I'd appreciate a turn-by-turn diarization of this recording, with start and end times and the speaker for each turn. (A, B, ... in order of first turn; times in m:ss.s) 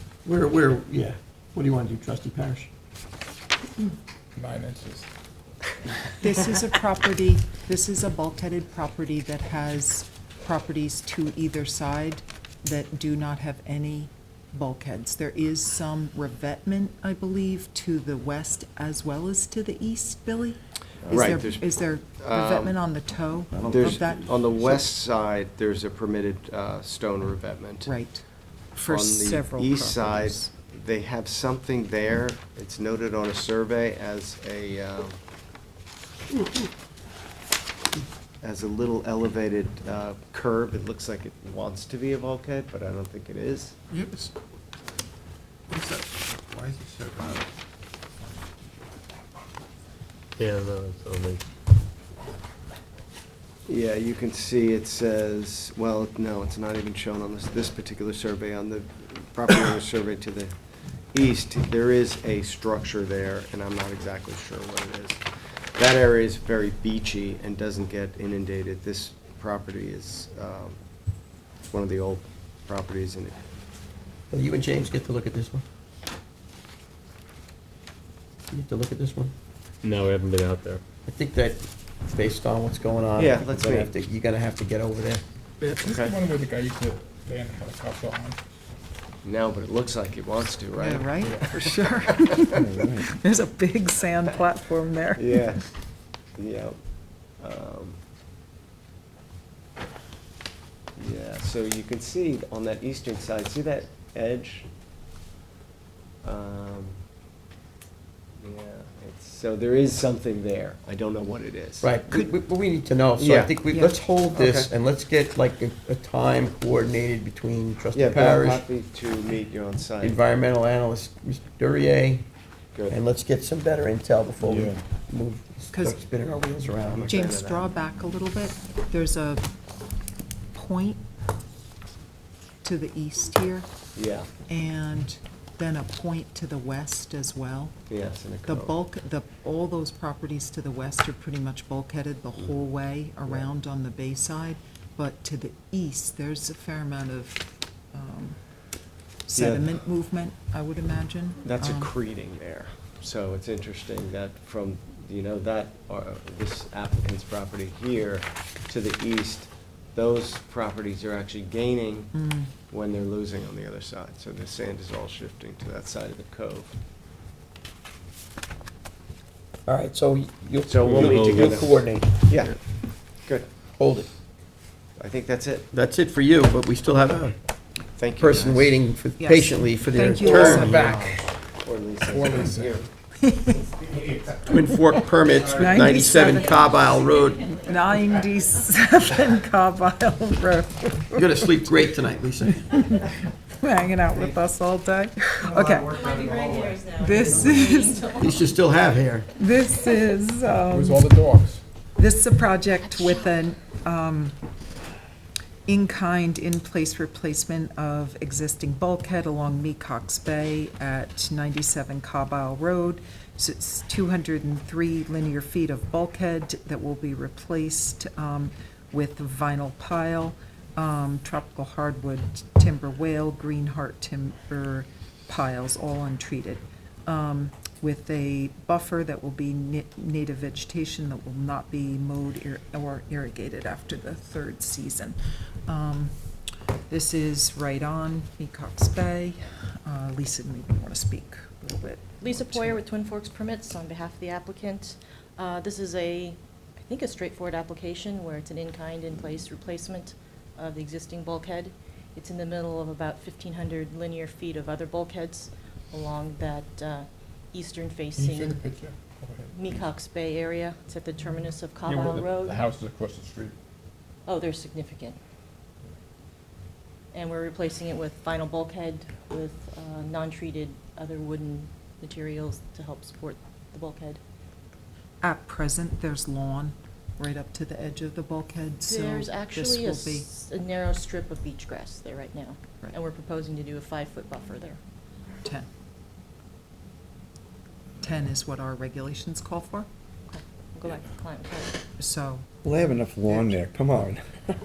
0:00.2-0:02.7 A
0:04.4-0:05.1 B
0:06.2-0:24.9 C
0:21.0-0:22.8 D
0:23.7-0:27.9 D
0:27.8-0:30.5 C
0:28.8-0:35.2 D
0:38.4-0:43.8 D
0:44.0-0:44.3 A
0:45.7-0:47.4 A
0:50.4-0:51.4 E
0:53.7-1:00.5 D
1:01.1-1:10.8 D
1:11.7-1:13.4 D
1:14.3-1:15.6 A
1:18.5-1:19.3 A
1:19.8-1:20.8 E
1:21.0-1:25.2 A
1:23.2-1:23.9 D
1:25.6-1:28.4 B
1:25.7-1:26.2 D
1:29.2-1:32.4 D
1:30.8-1:35.5 C
1:32.6-1:33.1 F
1:35.1-1:35.6 D
1:36.3-1:36.8 D
1:37.3-1:38.0 D
1:41.0-1:44.7 D
1:46.2-1:47.0 D
1:48.4-1:51.9 D
1:51.8-1:58.6 A
1:53.2-1:53.5 D
1:53.7-1:54.0 C
1:54.3-1:54.7 D
1:57.9-2:00.2 D
2:00.0-2:02.2 A
2:02.9-2:07.1 A
2:04.4-2:04.7 F
2:05.7-2:06.0 C
2:06.8-2:07.7 D
2:07.1-2:09.5 C
2:10.5-2:11.0 C
2:12.6-2:13.7 C
2:14.0-2:14.3 D
2:14.5-2:17.8 C
2:17.9-2:18.8 D
2:18.4-2:28.4 C
2:29.2-2:31.9 C
2:29.3-2:29.8 D
2:31.4-2:46.8 D
2:42.1-2:42.5 C
2:49.6-2:52.2 A
2:50.7-2:53.5 D
2:50.8-2:51.7 E
2:53.8-2:54.1 A
2:55.0-2:55.7 D
2:55.7-2:57.4 A
2:57.9-2:58.8 D
2:58.2-3:00.9 A
2:59.2-3:01.0 C
3:00.2-3:02.9 D
3:00.4-3:01.2 B
3:02.0-3:02.9 B
3:03.2-3:03.6 C
3:04.4-3:07.5 A
3:05.5-3:06.6 C
3:06.1-3:07.6 G
3:07.6-3:11.4 C
3:11.2-3:12.9 A
3:12.7-3:13.0 C
3:13.6-3:16.0 C
3:15.9-3:18.5 G
3:16.9-3:18.0 C
3:18.2-3:19.3 A
3:19.4-3:21.2 C
3:20.7-3:21.6 B
3:22.0-3:24.4 C
3:25.7-3:56.1 C
3:56.9-4:02.8 C
4:02.2-4:18.6 G
4:18.2-4:19.6 B
4:19.5-4:22.6 G
4:21.8-4:23.5 B
4:24.2-4:25.2 G
4:27.1-4:34.2 G
4:35.2-4:40.3 C
4:38.8-4:44.8 G
4:48.0-4:49.9 C
4:50.3-4:51.7 G
4:52.0-4:53.6 C
4:52.7-4:54.2 F